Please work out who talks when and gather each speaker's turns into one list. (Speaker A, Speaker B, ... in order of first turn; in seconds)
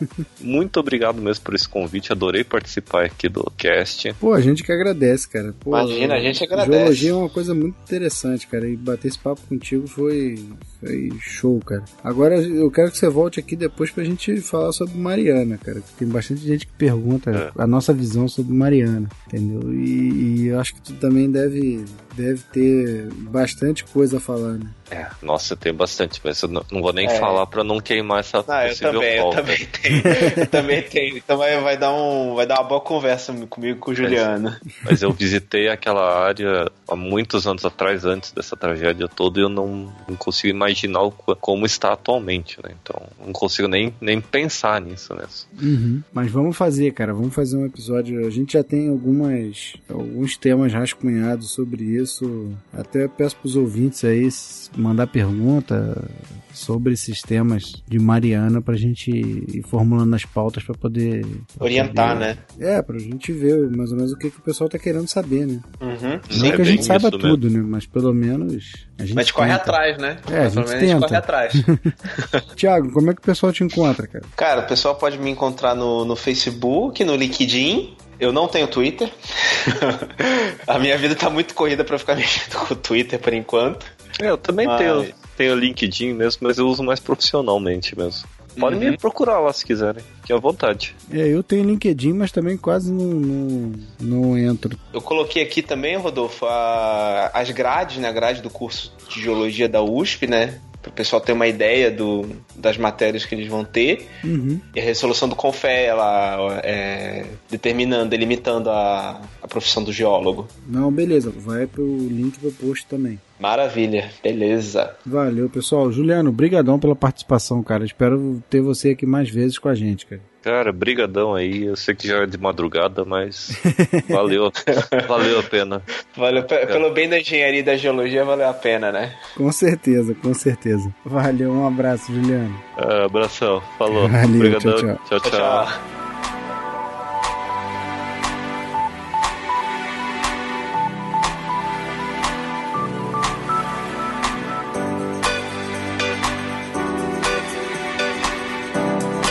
Speaker A: 0.4-4.2, 24.9-30.1, 34.0-34.3, 34.8-45.5, 66.3-67.4, 84.2-91.0, 120.4-125.9, 132.8-135.7
Speaker B: 4.2-24.8, 29.9-30.5, 45.6-65.7, 66.3-71.9, 72.6-74.3, 91.1-94.8, 104.2-104.6, 110.7-113.2, 115.1-120.2, 123.5-124.2, 129.3-132.6, 133.9-135.0
Speaker C: 5.7-7.1, 27.0-27.4, 28.5-34.6, 61.6-62.4, 65.8-66.9, 69.2-72.4, 74.4-83.9, 84.6-85.1, 88.6-89.0, 94.9-104.1, 104.8-110.5, 113.4-115.0, 124.8-125.1, 126.1-129.2, 135.2-135.8